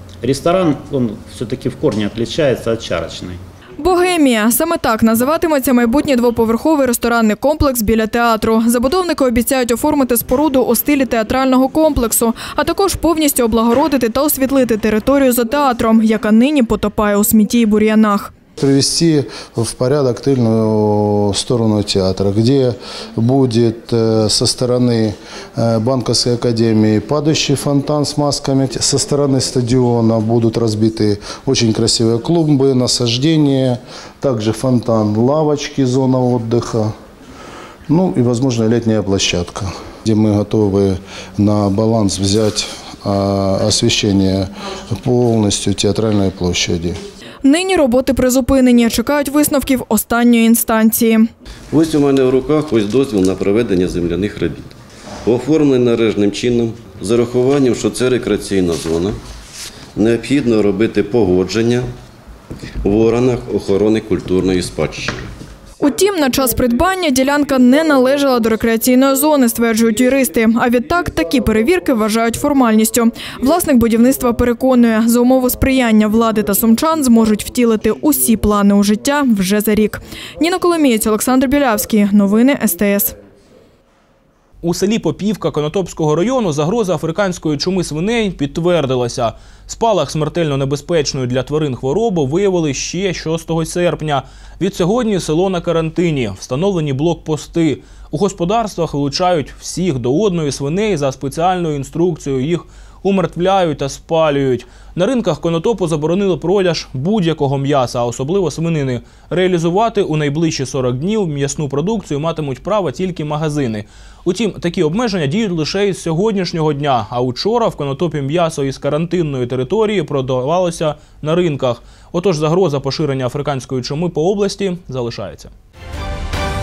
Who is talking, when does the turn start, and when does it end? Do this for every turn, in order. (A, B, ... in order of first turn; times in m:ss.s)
0:00.2-0:03.4 A
0:03.8-0:18.3 B
0:18.6-0:36.9 C
0:37.9-0:47.0 C
0:47.4-0:51.2 B
0:51.7-0:54.7 D
0:55.2-0:59.2 D
1:00.0-1:01.9 D
1:02.8-1:05.2 D
1:05.8-1:23.1 B
1:24.6-2:05.5 E